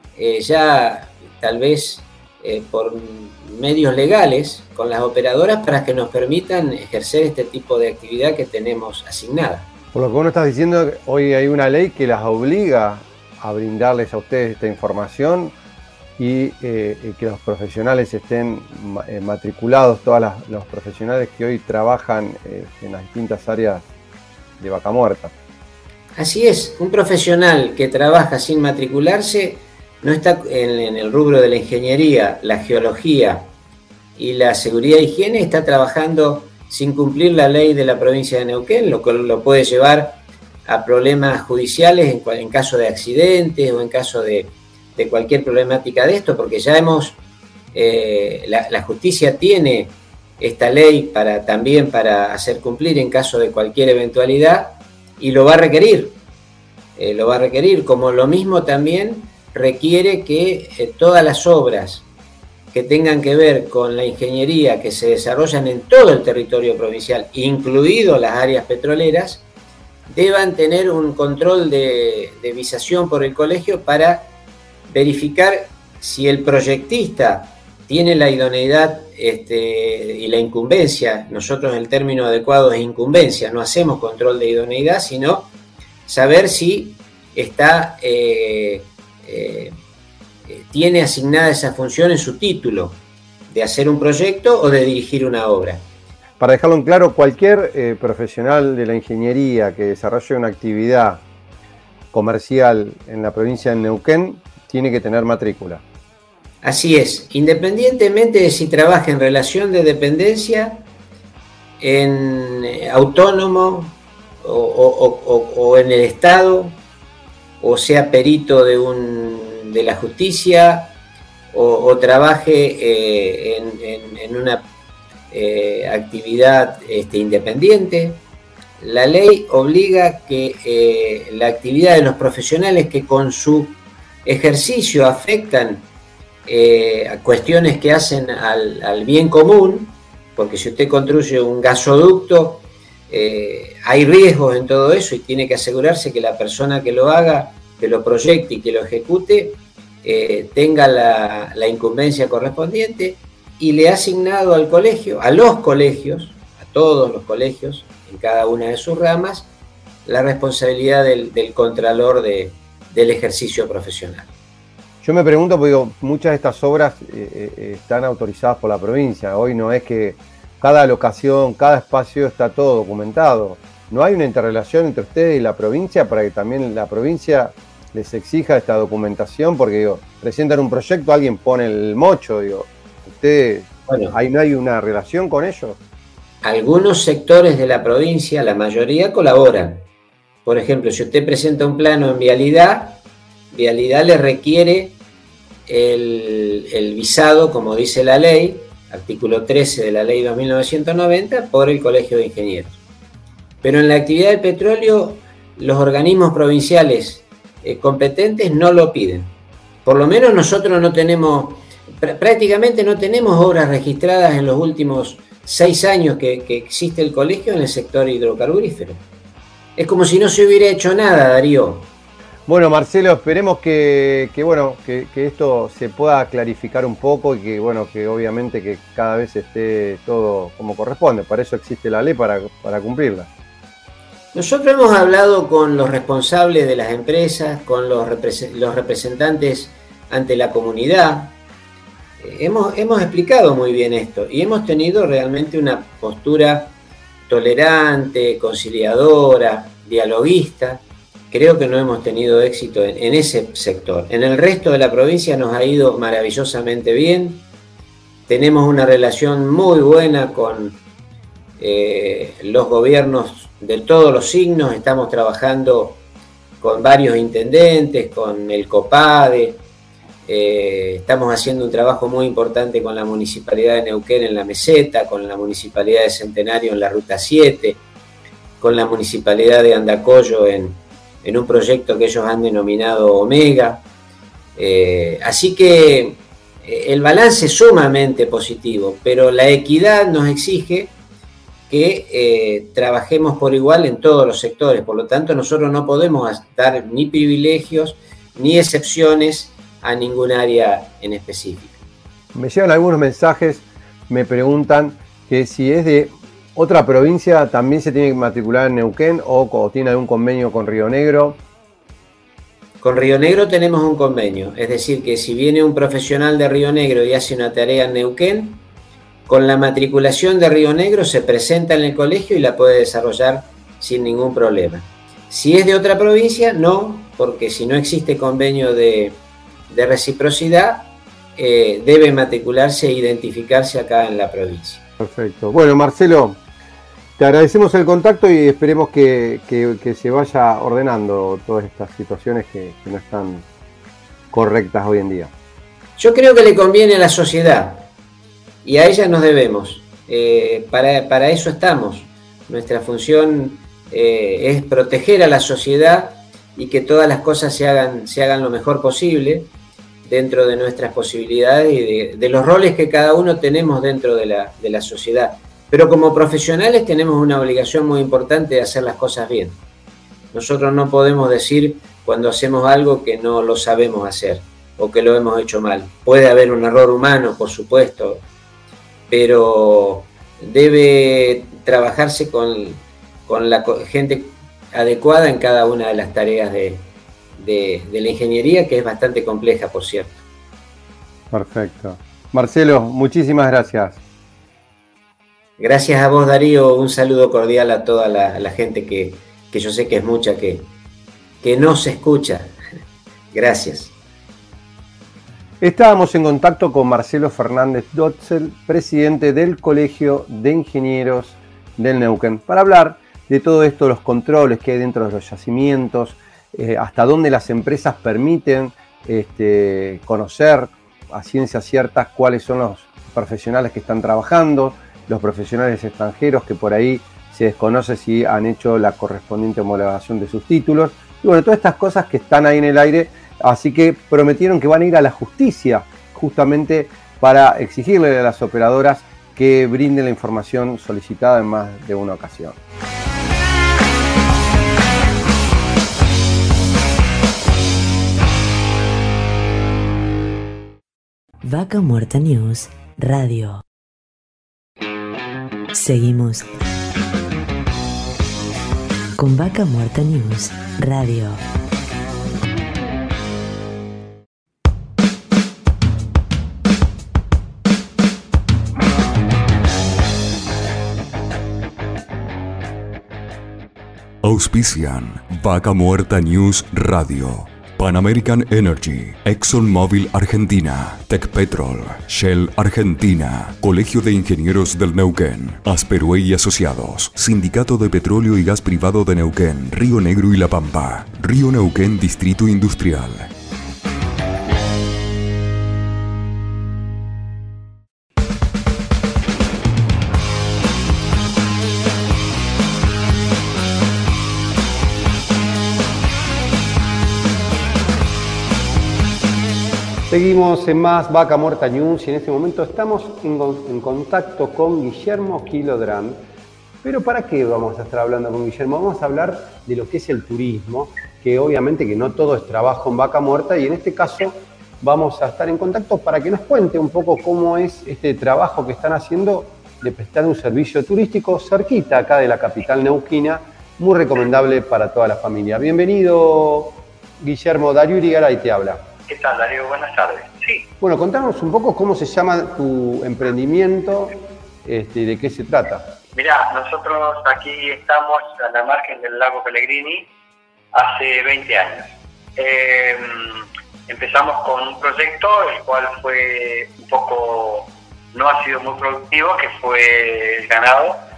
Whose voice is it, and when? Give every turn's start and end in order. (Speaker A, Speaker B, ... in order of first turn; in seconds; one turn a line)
Speaker A: 0.1-9.7
Speaker B: 9.9-15.5
Speaker B: 16.2-23.8
Speaker B: 24.6-25.3
Speaker A: 26.1-33.5
Speaker A: 34.2-47.2
Speaker A: 47.7-56.2
Speaker A: 57.0-62.1
Speaker A: 62.7-69.4
Speaker A: 70.1-74.3
Speaker A: 74.9-85.5
Speaker A: 86.0-89.8
Speaker A: 90.5-95.8
Speaker B: 96.4-101.2
Speaker B: 102.1-105.8
Speaker A: 106.6-110.8
Speaker A: 111.8-116.8
Speaker A: 117.6-120.9
Speaker A: 121.5-124.6
Speaker A: 125.3-128.2
Speaker A: 128.8-135.9
Speaker A: 136.5-159.5
Speaker A: 160.1-164.3
Speaker B: 165.0-185.8
Speaker A: 183.9-184.1
Speaker A: 186.4-189.8
Speaker A: 190.4-193.0
Speaker A: 193.5-195.0
Speaker A: 195.7-202.8
Speaker A: 203.6-209.3
Speaker A: 209.8-219.0
Speaker A: 219.8-221.9
Speaker B: 222.5-233.3
Speaker A: 234.3-241.3
Speaker A: 242.2-246.7
Speaker A: 247.3-257.4
Speaker A: 258.3-260.8
Speaker A: 261.6-266.0
Speaker A: 266.6-269.6
Speaker A: 270.2-277.8
Speaker A: 278.6-283.8
Speaker A: 284.6-290.9
Speaker A: 291.7-301.8
Speaker B: 302.3-311.4
Speaker A: 312.8-318.6
Speaker A: 319.3-334.8
Speaker B: 335.0-336.4
Speaker B: 337.2-343.4
Speaker B: 344.3-345.3
Speaker A: 346.0-347.9
Speaker A: 348.6-359.5
Speaker A: 360.0-369.6
Speaker A: 370.3-378.2
Speaker A: 379.1-386.9
Speaker A: 387.4-390.1
Speaker B: 391.3-394.0
Speaker A: 395.6-400.7
Speaker A: 401.4-402.6
Speaker A: 403.3-403.9
Speaker B: 405.6-442.6
Speaker C: 451.4-453.6
Speaker C: 455.7-456.6
Speaker C: 459.2-461.4
Speaker D: 474.2-493.3
Speaker B: 510.1-516.2
Speaker B: 516.8-538.9
Speaker E: 539.1-540.6
Speaker B: 540.8-545.9
Speaker E: 546.2-550.0
Speaker E: 550.7-553.3
Speaker E: 553.9-561.0